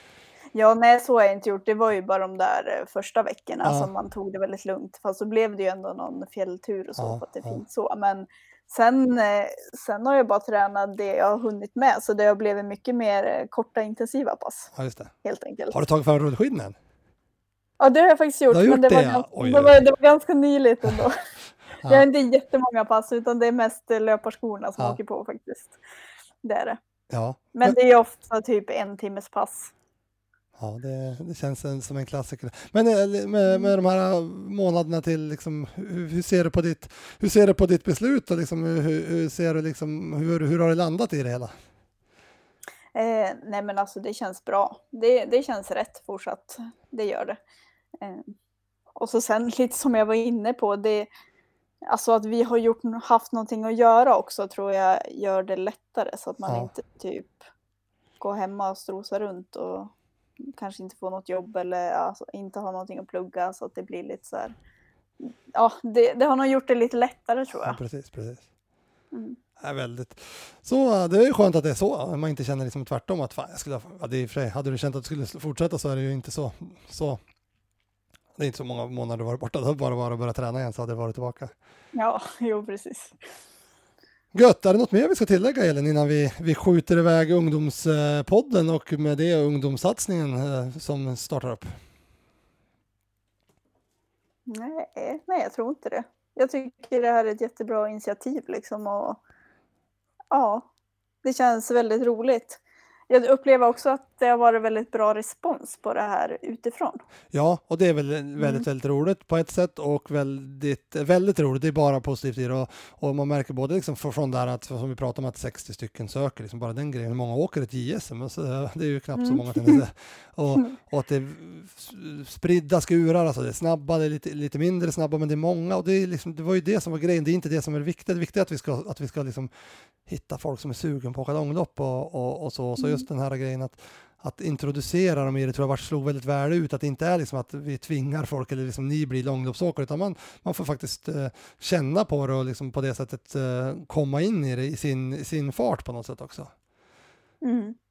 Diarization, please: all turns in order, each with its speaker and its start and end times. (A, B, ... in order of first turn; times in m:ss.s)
0:00.5-0:14.7 A
0:03.6-0:03.9 B
0:07.0-0:07.6 B
0:14.7-0:15.1 B
0:15.2-0:15.8 A
0:15.7-0:16.7 B
0:17.8-0:21.2 A
0:18.5-0:19.8 B
0:21.8-0:25.8 A
0:26.4-0:26.8 A
0:27.1-0:27.8 B
0:27.5-0:29.7 A
0:30.6-0:41.5 B
0:33.4-0:33.7 A
0:42.9-0:47.4 A
0:48.0-0:48.3 A
0:49.0-0:51.1 A
0:51.8-0:57.4 A
0:56.4-0:56.7 B
0:58.2-1:04.5 A
1:05.2-1:07.8 A
1:07.6-1:08.4 B
1:09.1-1:09.4 A
1:09.6-1:17.2 B
1:18.4-1:21.5 B
1:21.9-1:23.2 A
1:24.3-1:31.7 B
1:34.5-1:39.2 A
1:40.3-1:40.7 A
1:41.2-1:47.0 A
1:47.3-2:09.5 B
1:48.4-1:48.6 A
1:59.1-1:59.8 A
2:10.0-2:26.5 B
2:12.8-2:13.0 A
2:27.4-2:27.8 A